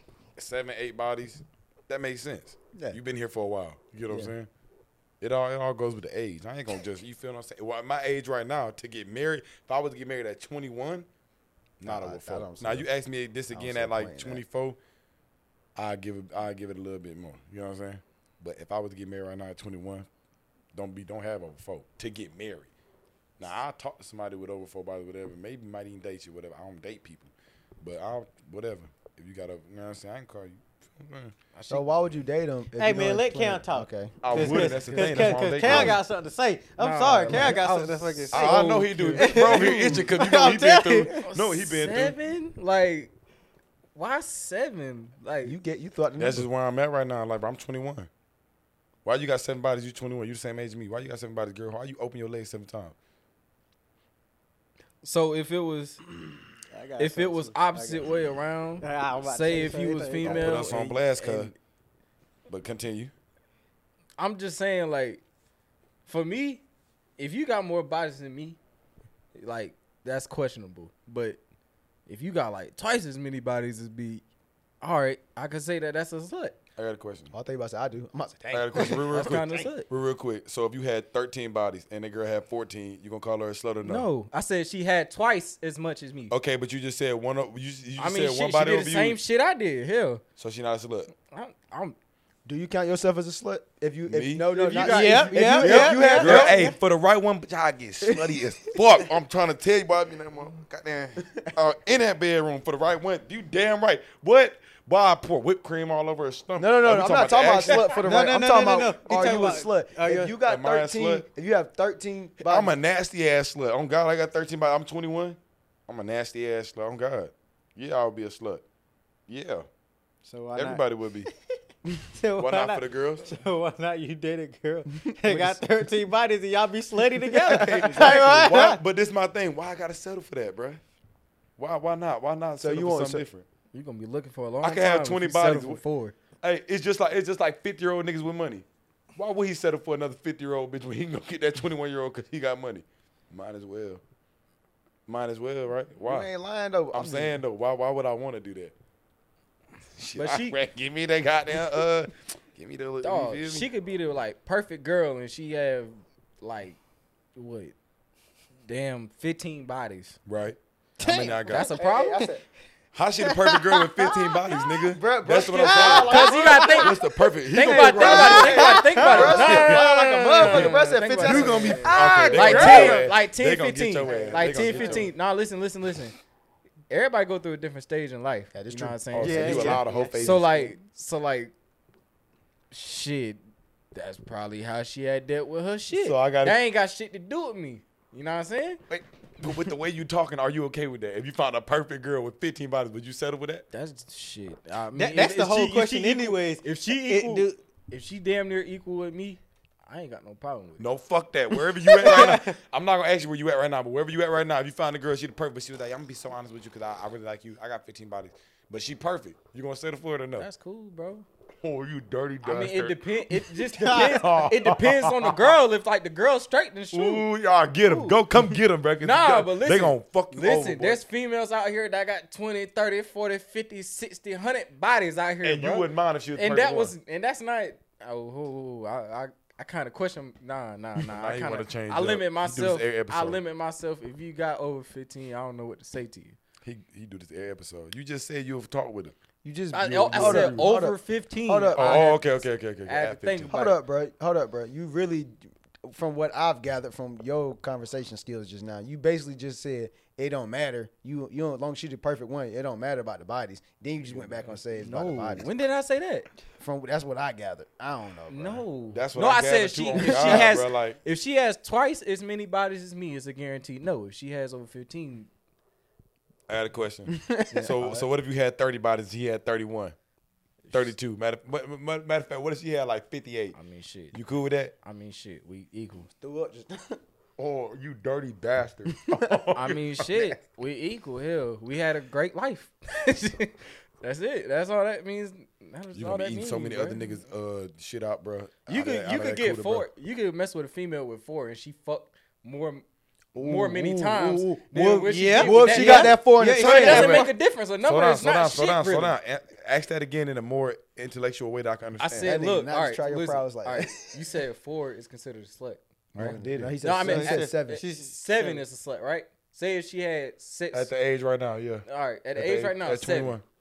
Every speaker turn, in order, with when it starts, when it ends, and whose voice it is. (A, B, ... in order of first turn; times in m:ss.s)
0:00.4-0:04.5 A
0:04.1-0:04.3 B
0:05.2-0:11.1 A
0:11.8-0:14.8 A
0:11.8-0:12.9 B
0:13.5-0:14.4 B
0:15.8-0:20.1 A
0:20.7-0:22.7 A
0:23.4-0:31.3 A
0:31.6-0:31.8 C
0:31.7-0:35.0 B
0:32.8-0:41.3 D
0:34.2-0:36.0 A
0:35.0-0:36.0 C
0:36.8-0:39.8 C
0:38.3-0:42.2 A
0:39.6-0:40.0 B
0:41.2-0:43.1 C
0:44.0-0:45.6 C
0:45.4-0:46.5 B
0:46.2-0:48.1 A
0:49.0-0:53.0 A
0:55.0-0:56.0 C
0:56.7-0:58.2 D
0:57.0-1:01.6 C
0:58.8-1:01.0 D
1:00.2-1:01.5 A
1:02.5-1:03.1 A
1:04.2-1:05.2 C
1:06.1-1:06.6 C
1:07.2-1:08.6 C
1:09.4-1:11.4 C
1:12.1-1:14.2 C
1:14.8-1:16.6 C
1:16.8-1:17.3 A
1:17.3-1:19.6 B
1:18.5-1:24.1 A
1:18.8-1:19.9 C
1:23.8-1:26.3 C
1:26.3-1:29.2 A
1:28.0-1:30.2 C
1:30.4-1:31.1 A
1:31.2-1:32.0 C
1:32.4-1:36.7 B
1:34.1-1:34.5 A
1:34.5-1:36.3 C
1:34.8-1:36.8 D
1:35.5-1:48.1 A
1:38.0-1:39.0 B
1:46.6-1:52.8 B
1:47.8-1:50.4 D
1:50.5-1:51.3 A
1:52.4-1:58.6 A
1:59.3-1:59.7 A
2:00.2-2:01.3 D
2:00.6-2:01.3 A
2:01.9-2:08.8 D
2:02.4-2:03.4 A
2:05.0-2:05.6 B
2:07.3-2:10.8 A
2:11.6-2:13.4 A
2:12.6-2:13.3 B
2:13.7-2:16.2 C
2:14.6-2:15.8 A
2:16.4-2:18.6 A
2:19.2-2:24.0 A
2:25.1-2:26.3 A
2:26.0-2:27.4 B
2:26.9-2:28.7 A
2:30.0-2:33.7 A
2:30.2-2:30.6 C
2:33.0-2:36.8 C
2:37.4-2:37.7 C
2:38.7-2:40.2 C
2:40.3-2:41.7 A
2:41.0-2:41.6 D
2:41.2-2:42.4 B
2:41.4-2:42.3 C
2:42.9-2:55.1 A
2:43.3-2:44.6 D
2:44.9-2:47.0 B
2:45.6-2:46.9 D
2:46.1-2:47.0 C
2:47.5-2:56.2 C
2:47.7-2:53.1 B
2:48.0-2:49.6 D
2:51.8-2:53.1 D
2:54.0-2:54.7 D
2:54.5-2:55.1 B
2:56.9-3:01.5 C
2:58.5-2:59.8 B
2:59.1-3:00.8 A
2:59.2-3:00.4 D
3:02.7-3:03.4 C
3:03.9-3:08.8 C
3:05.9-3:06.6 A
3:08.9-3:13.6 A
3:13.7-3:20.9 C
3:15.0-3:17.6 D
3:20.8-3:30.5 A
3:21.8-3:22.6 D
3:22.1-3:22.4 C
3:30.4-3:31.3 C
3:31.6-3:33.3 A
3:32.4-3:37.2 C
3:33.7-3:34.3 D
3:33.8-3:35.5 A
3:36.9-3:41.0 A
3:37.8-3:38.2 C
3:39.0-3:56.4 C
3:45.4-3:46.9 A
3:51.0-3:53.4 A
3:56.6-3:59.2 A
3:59.4-4:02.2 B
3:59.7-4:02.3 C
3:59.8-4:00.7 A
4:01.8-4:03.6 A
4:02.9-4:03.8 C
4:03.5-4:15.5 B
4:14.1-4:16.3 C
4:16.6-4:18.6 B
4:18.3-4:25.3 C
4:18.9-4:21.0 A
4:20.0-4:20.5 B
4:26.5-4:30.0 A
4:27.1-4:27.8 B
4:27.5-4:28.1 C
4:30.7-4:31.0 C
4:30.7-4:33.6 A
4:33.6-4:34.2 C
4:34.1-4:34.7 A
4:34.8-4:36.1 C
4:36.1-4:37.0 B
4:37.4-4:40.3 A
4:38.9-4:39.4 B
4:39.6-4:47.0 C
4:46.0-4:49.9 A
4:48.7-4:52.8 C
4:53.4-4:59.2 C
4:53.4-4:54.6 A
4:53.4-4:54.1 B
4:54.6-4:57.3 B
4:55.1-4:57.3 D
4:56.8-4:57.2 A
4:57.8-5:02.3 A
5:02.0-5:10.9 C
5:02.2-5:04.0 B
5:06.1-5:06.8 A
5:06.2-5:07.8 B
5:07.0-5:08.6 D
5:10.7-5:13.4 A
5:11.9-5:13.4 C